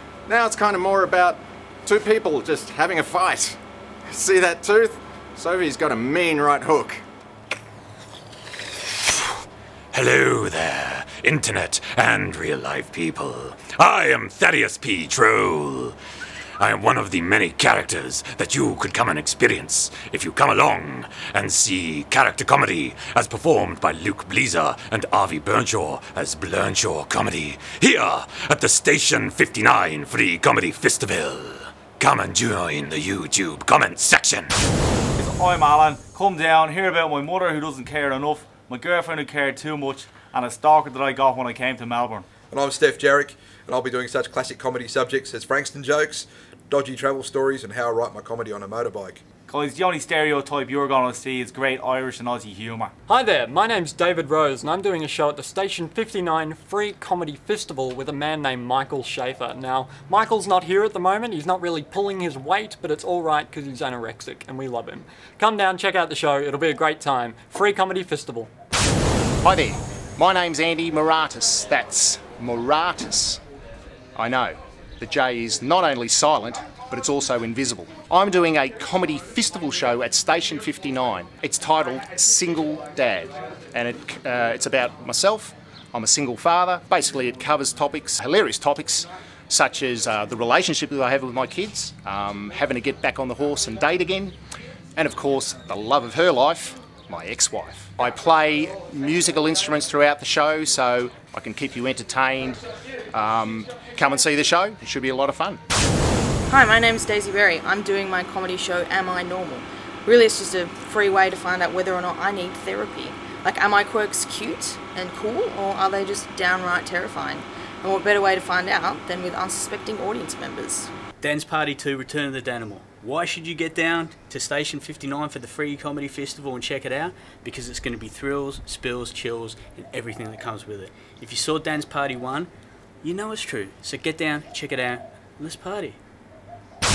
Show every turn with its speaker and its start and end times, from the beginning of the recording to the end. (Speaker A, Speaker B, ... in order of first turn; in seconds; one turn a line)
Speaker A: 0.3-7.0
Speaker B: 9.9-15.9
Speaker B: 16.6-34.5
Speaker C: 35.1-42.3
Speaker D: 42.5-49.2
Speaker C: 49.5-52.9
Speaker E: 53.1-68.5
Speaker F: 69.4-73.4
Speaker F: 74.2-94.3
Speaker F: 95.0-102.6
Speaker F: 103.1-105.6
Speaker G: 106.5-120.9
Speaker H: 121.2-132.5
Speaker H: 133.0-136.0